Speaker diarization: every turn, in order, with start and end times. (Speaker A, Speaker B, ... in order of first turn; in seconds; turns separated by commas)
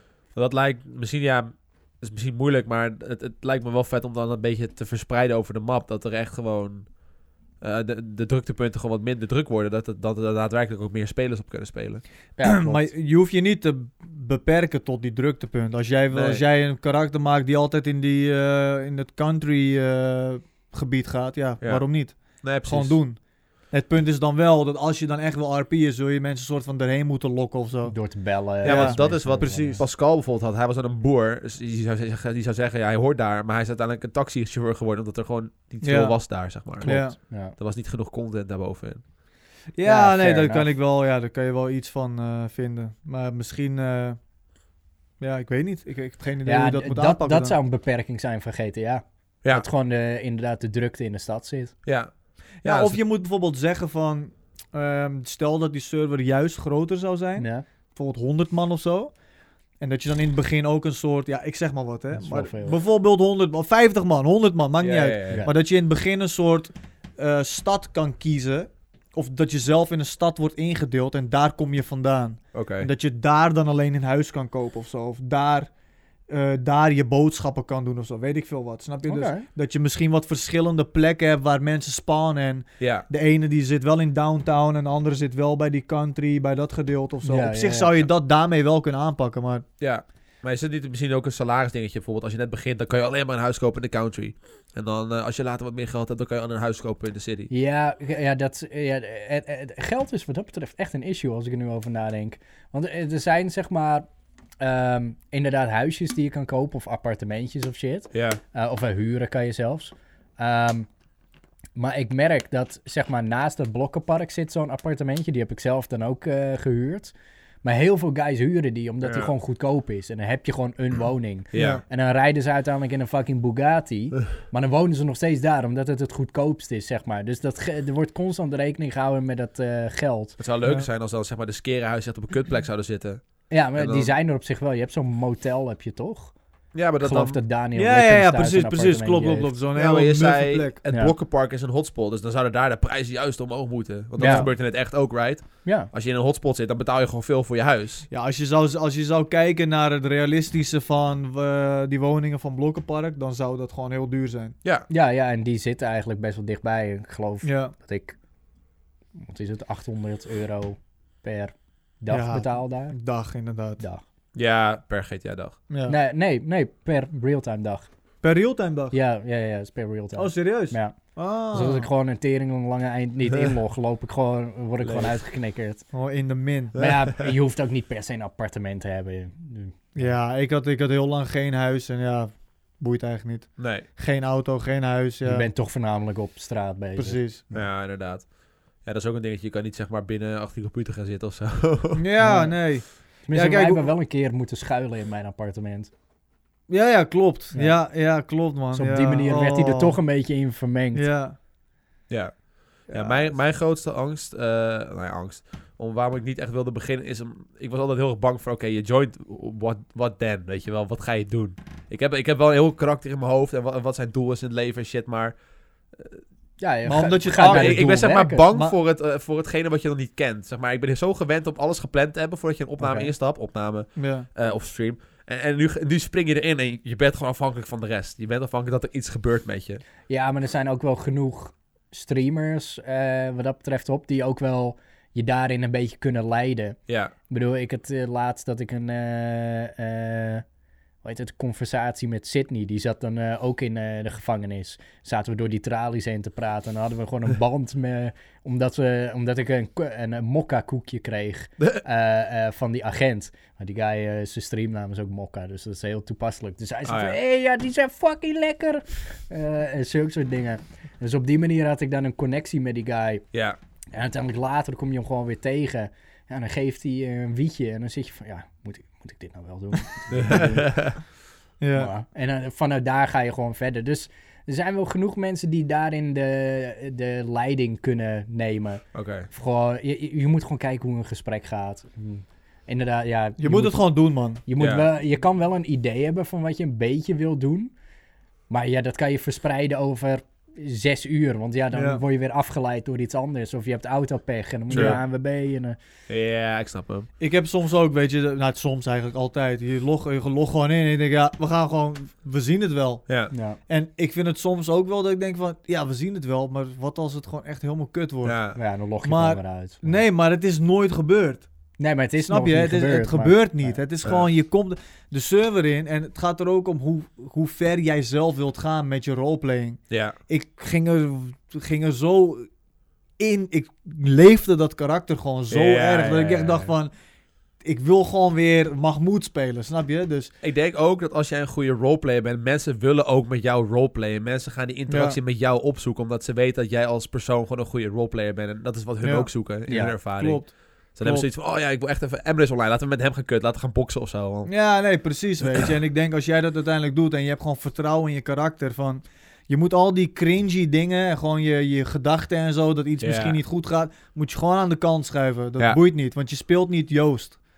Speaker A: 0.3-6.9, Speaker A: 7.6-12.0, Speaker B: 12.4-12.9, Speaker C: 12.4-28.0, Speaker A: 16.1-16.4, Speaker A: 21.6-23.0, Speaker B: 27.9-29.8, Speaker C: 28.6-29.8, Speaker A: 28.6-39.0, Speaker C: 35.8-36.2, Speaker B: 36.8-37.5, Speaker C: 36.8-37.1, Speaker C: 39.7-44.2, Speaker B: 39.8-40.7, Speaker C: 45.2-47.5, Speaker B: 46.4-51.7, Speaker A: 51.8-53.0, Speaker C: 52.6-59.1, Speaker B: 57.4-57.6, Speaker C: 59.8-75.7, Speaker B: 62.1-62.8, Speaker A: 64.8-65.4, Speaker B: 65.3-65.5, Speaker A: 72.5-72.9, Speaker C: 76.3-89.6, Speaker B: 79.0-79.5, Speaker A: 82.8-83.0, Speaker B: 87.2-88.0, Speaker A: 89.8-97.5, Speaker B: 97.5-104.1, Speaker B: 104.6-110.9, Speaker A: 108.1-108.4, Speaker B: 111.7-130.4, Speaker A: 119.0-119.3, Speaker A: 121.5-121.8, Speaker C: 121.5-121.8, Speaker A: 130.4-133.2, Speaker B: 133.5-136.3, Speaker A: 133.8-134.1, Speaker A: 136.7-137.4, Speaker B: 137.0-139.5, Speaker C: 137.7-140.8, Speaker A: 139.7-148.1, Speaker B: 140.9-141.1, Speaker B: 144.2-144.5, Speaker C: 144.2-144.5, Speaker B: 145.6-145.9, Speaker C: 148.1-154.6, Speaker B: 154.9-158.2, Speaker C: 157.4-157.7, Speaker B: 159.2-162.9, Speaker C: 162.1-163.8, Speaker A: 164.3-165.6, Speaker C: 165.7-165.9, Speaker B: 165.8-167.9, Speaker C: 168.2-169.0, Speaker B: 168.9-175.8, Speaker C: 170.2-171.9, Speaker A: 174.8-175.2, Speaker C: 175.9-176.7, Speaker B: 176.7-180.1, Speaker A: 176.8-177.2, Speaker C: 179.9-185.5, Speaker A: 183.6-183.9, Speaker B: 185.2-187.6, Speaker C: 186.9-187.4, Speaker A: 187.5-192.0, Speaker C: 191.9-193.9, Speaker B: 192.2-195.9, Speaker C: 196.7-200.0, Speaker B: 197.5-197.8, Speaker B: 198.7-201.1, Speaker C: 200.9-201.3, Speaker A: 202.1-215.4, Speaker C: 202.9-203.3, Speaker A: 215.9-216.2, Speaker B: 216.6-218.5, Speaker C: 216.8-218.7, Speaker A: 217.4-229.8, Speaker B: 222.8-223.1, Speaker C: 223.9-224.3, Speaker B: 230.1-236.8, Speaker A: 236.9-237.1, Speaker B: 237.3-240.4, Speaker B: 241.0-263.2, Speaker A: 256.9-257.2, Speaker B: 263.9-270.9, Speaker A: 270.1-271.0, Speaker C: 271.6-271.9, Speaker B: 271.7-287.7, Speaker A: 278.9-279.3, Speaker C: 283.4-284.4, Speaker A: 284.6-284.8, Speaker B: 288.5-295.8, Speaker C: 291.7-292.0, Speaker A: 294.7-295.0, Speaker C: 294.7-295.0, Speaker A: 296.1-297.1, Speaker C: 297.2-303.1, Speaker B: 303.3-303.6, Speaker C: 303.7-308.4, Speaker A: 308.2-308.6, Speaker B: 308.6-310.0, Speaker C: 309.0-311.5, Speaker B: 311.8-313.8, Speaker C: 312.2-322.5, Speaker A: 319.9-320.2, Speaker C: 323.2-326.9, Speaker A: 325.5-326.7, Speaker C: 327.6-330.3, Speaker A: 330.4-344.5, Speaker C: 334.9-335.2, Speaker C: 339.0-339.4, Speaker B: 339.7-339.9, Speaker C: 340.1-341.3, Speaker C: 344.5-357.4, Speaker A: 353.0-353.4